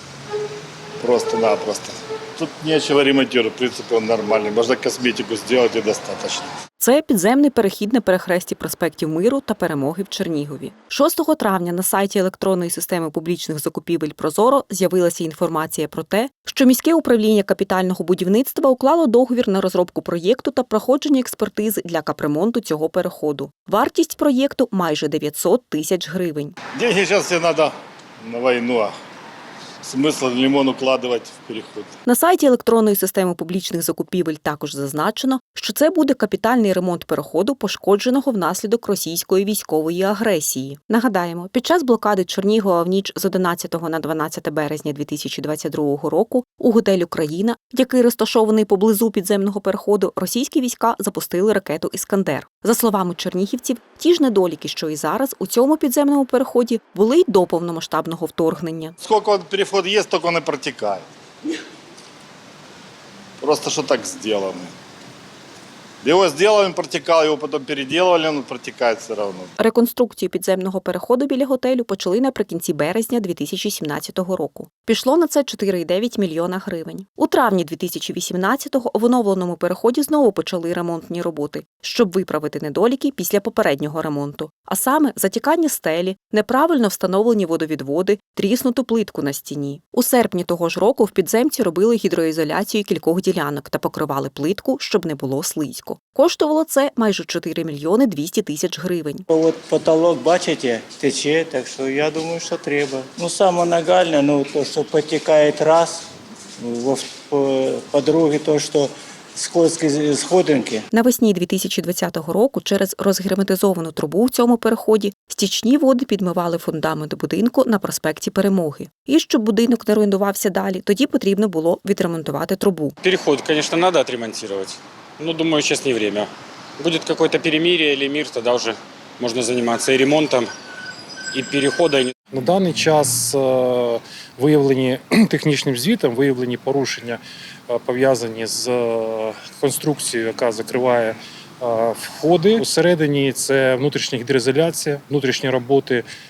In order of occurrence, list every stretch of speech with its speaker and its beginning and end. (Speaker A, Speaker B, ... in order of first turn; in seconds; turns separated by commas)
Speaker A: 1.0-6.5, Speaker B: 6.8-26.5, Speaker A: 26.7-28.9, Speaker A: 29.8-32.0, Speaker B: 32.0-59.0, Speaker A: 59.0-61.0, Speaker A: 63.4-64.7, Speaker A: 66.0-69.5, Speaker B: 69.6-99.2, Speaker C: 99.3-106.1, Speaker C: 106.6-110.8, Speaker B: 110.9-122.9, Speaker D: 123.0-126.3, Speaker D: 126.8-130.5, Speaker D: 131.3-132.1, Speaker E: 132.4-137.2, Speaker E: 137.7-146.0